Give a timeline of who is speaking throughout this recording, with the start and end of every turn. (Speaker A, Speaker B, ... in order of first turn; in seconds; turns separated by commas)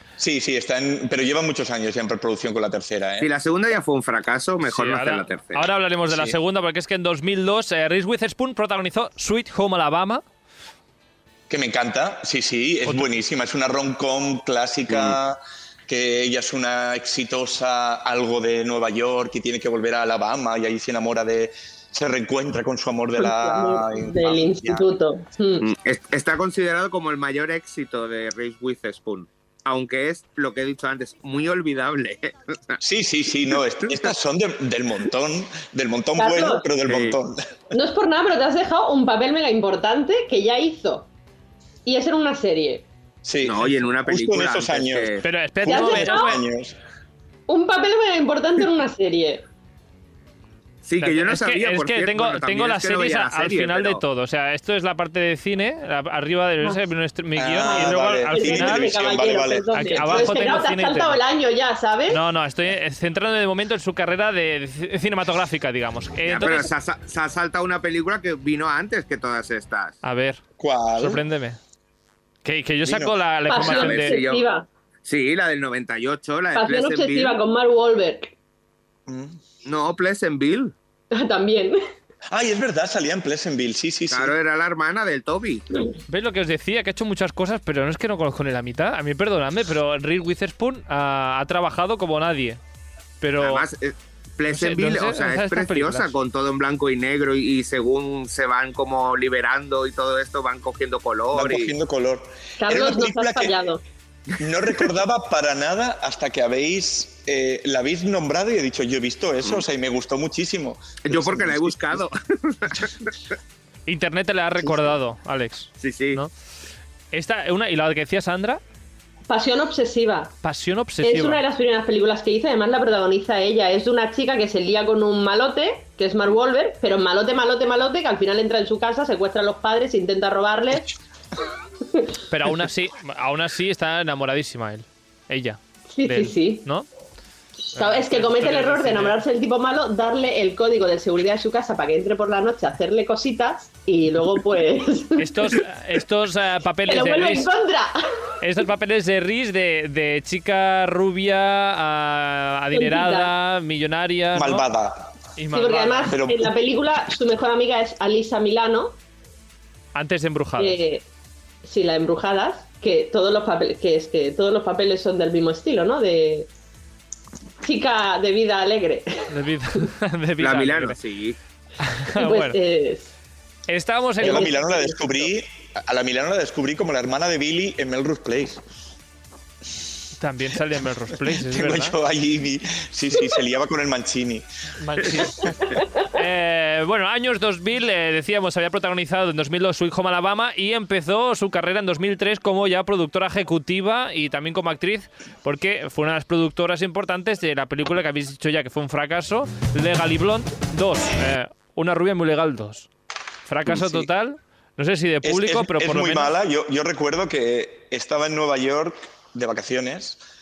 Speaker A: 0.2-3.3, Speaker B: 3.2-5.6, Speaker C: 4.6-10.2, Speaker A: 6.1-6.4, Speaker A: 11.5-24.9, Speaker B: 14.9-15.2, Speaker D: 23.2-25.7, Speaker B: 25.6-32.8, Speaker A: 32.8-37.5, Speaker D: 36.2-36.7, Speaker B: 36.9-37.2, Speaker D: 37.7-41.1, Speaker D: 41.9-42.9, Speaker A: 43.2-46.8, Speaker B: 43.4-45.2, Speaker C: 45.2-46.4, Speaker D: 45.6-46.4, Speaker D: 47.5-49.4, Speaker B: 50.8-54.0, Speaker C: 51.0-58.9, Speaker A: 57.4-60.5, Speaker D: 57.6-62.2, Speaker C: 59.7-61.2, Speaker C: 62.1-66.7, Speaker B: 66.3-70.0, Speaker C: 70.0-70.4, Speaker A: 70.6-71.2, Speaker C: 70.9-71.6, Speaker C: 72.4-74.2, Speaker A: 72.8-73.1, Speaker D: 73.5-74.7, Speaker B: 73.6-74.4, Speaker B: 75.0-77.4, Speaker D: 76.5-78.3, Speaker A: 79.1-79.4, Speaker B: 79.6-80.7, Speaker D: 81.1-81.8, Speaker A: 82.3-84.3, Speaker B: 84.1-85.7, Speaker C: 86.1-92.6, Speaker C: 93.2-93.7, Speaker B: 93.4-101.7, Speaker C: 94.5-96.1, Speaker A: 101.3-103.6, Speaker D: 102.6-103.8, Speaker A: 104.4-112.0, Speaker B: 111.0-113.1, Speaker C: 113.9-116.3, Speaker B: 115.8-116.2, Speaker C: 117.1-118.6, Speaker D: 119.3-120.3, Speaker C: 120.4-121.4, Speaker D: 121.0-130.9, Speaker C: 132.3-136.9, Speaker D: 135.9-136.7, Speaker D: 137.7-145.6, Speaker C: 137.8-139.2, Speaker C: 145.2-147.5, Speaker D: 146.9-148.0, Speaker C: 148.4-154.7, Speaker D: 152.7-153.3, Speaker A: 154.3-155.1, Speaker C: 155.4-156.2, Speaker D: 155.5-159.0, Speaker A: 156.1-156.5, Speaker C: 159.9-160.8, Speaker D: 160.6-161.1, Speaker D: 161.6-166.5, Speaker D: 167.6-169.3, Speaker C: 169.3-171.0, Speaker B: 170.4-171.4, Speaker C: 171.8-172.6, Speaker D: 172.1-173.1, Speaker C: 173.7-174.5, Speaker A: 174.2-178.6, Speaker D: 174.2-175.0, Speaker C: 180.2-182.0, Speaker A: 181.3-184.5, Speaker C: 184.8-202.9, Speaker A: 185.0-185.3, Speaker C: 203.5-206.3, Speaker A: 203.7-204.1, Speaker A: 205.2-210.2